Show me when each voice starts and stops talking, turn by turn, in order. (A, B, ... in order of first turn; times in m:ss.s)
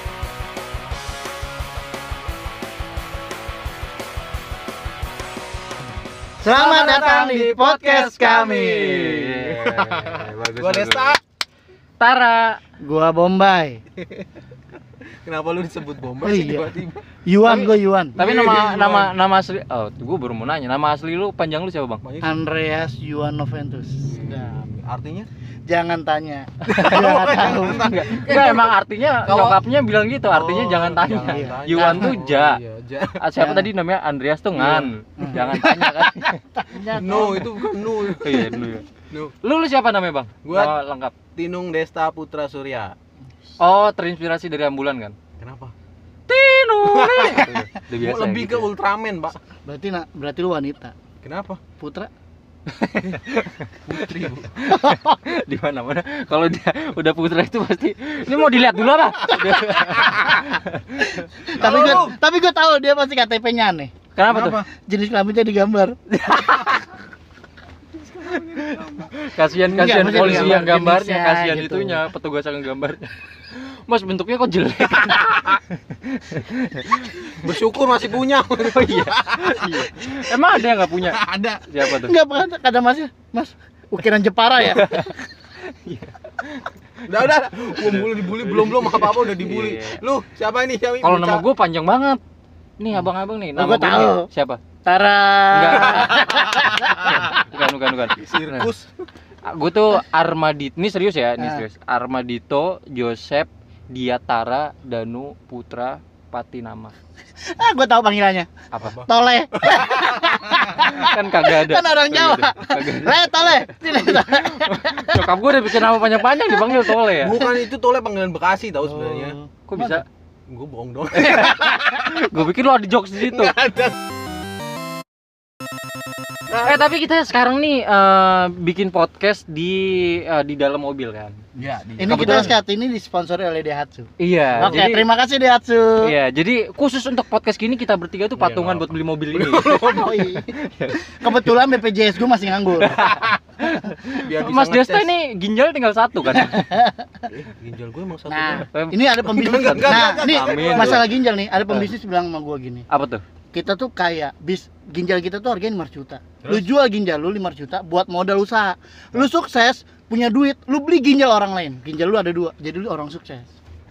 0:06.4-0:09.0 A
0:06.4-0:11.2 B
0:08.4-0:11.2 C
0:12.0-0:12.6 C
0:12.8-0:13.8 A
0:14.0-0:14.2 B
0:15.2-0:19.1 B
0:16.2-0:16.7 A
0:17.2-0:18.2 A
0:18.2-0:22.0 C
0:22.0-0:22.4 B
0:22.2-0:24.6 A
0:24.1-0:25.3 B
0:25.7-0:27.9 A
0:26.7-0:29.6 B
0:26.7-0:32.6 C
0:30.3-0:33.3 B
0:31.2-0:32.2 A
0:33.2-0:36.4 C
0:33.4-0:33.7 A
0:35.2-0:38.5 A
0:36.8-0:38.4 B
0:38.2-0:38.9 C
0:39.4-0:41.1 C
0:40.4-0:40.8 B
0:41.3-0:42.9 B
0:43.6-0:45.2 C
0:45.4-0:45.7 B
0:46.3-0:48.7 C
0:46.8-0:49.4 B
0:49.6-0:50.9 A
0:51.2-0:51.6 B
0:51.8-0:52.1 A
0:52.7-0:53.7 C
0:53.8-0:54.5 B
0:54.5-1:01.8 C
0:54.7-0:55.2 A
0:59.6-1:00.2 B
1:01.2-1:06.0 A
1:01.5-1:02.2 B
1:04.2-1:04.6 C
1:04.3-1:04.6 B
1:06.1-1:06.9 C
1:08.2-1:09.0 B
1:08.3-1:17.4 C
1:09.7-1:12.0 A
1:09.8-1:10.7 B
1:17.2-1:20.4 B
1:18.6-1:22.2 C
1:20.9-1:21.8 B
1:22.0-1:25.1 A
1:24.6-1:26.7 C
1:27.0-1:31.4 B
1:27.8-1:30.0 C
1:31.0-1:32.2 C
1:32.8-1:34.6 C
1:33.5-1:34.3 A
1:34.8-1:37.4 A
1:35.5-1:38.7 C
1:35.9-1:36.6 B
1:38.1-1:38.9 B
1:39.4-1:46.9 C
1:41.4-1:41.6 A
1:47.4-1:48.5 A
1:48.7-1:49.0 C
1:48.8-1:50.9 B
1:49.0-1:55.4 A
1:50.8-1:57.4 C
1:56.4-1:57.6 A
1:57.2-1:59.4 B
1:58.8-2:00.0 A
1:59.7-2:00.0 C
2:00.5-2:02.0 B
2:01.2-2:03.6 C
2:03.3-2:04.0 B
2:06.5-2:06.8 B
2:06.5-2:11.4 C
2:11.5-2:12.5 B
2:12.0-2:16.1 A
2:12.1-2:12.5 C
2:14.2-2:15.1 C
2:16.0-2:21.2 C
2:18.4-2:20.3 B
2:19.9-2:20.5 A
2:21.0-2:23.0 A
2:22.8-2:26.7 C
2:24.1-2:25.1 B
2:26.3-2:27.2 A
2:27.3-2:28.7 B
2:28.3-2:32.8 A
2:28.7-2:29.1 C
2:29.3-2:31.1 B
2:29.6-2:31.1 C
2:32.9-2:33.2 C
2:33.5-2:43.5 A
2:36.4-2:36.7 B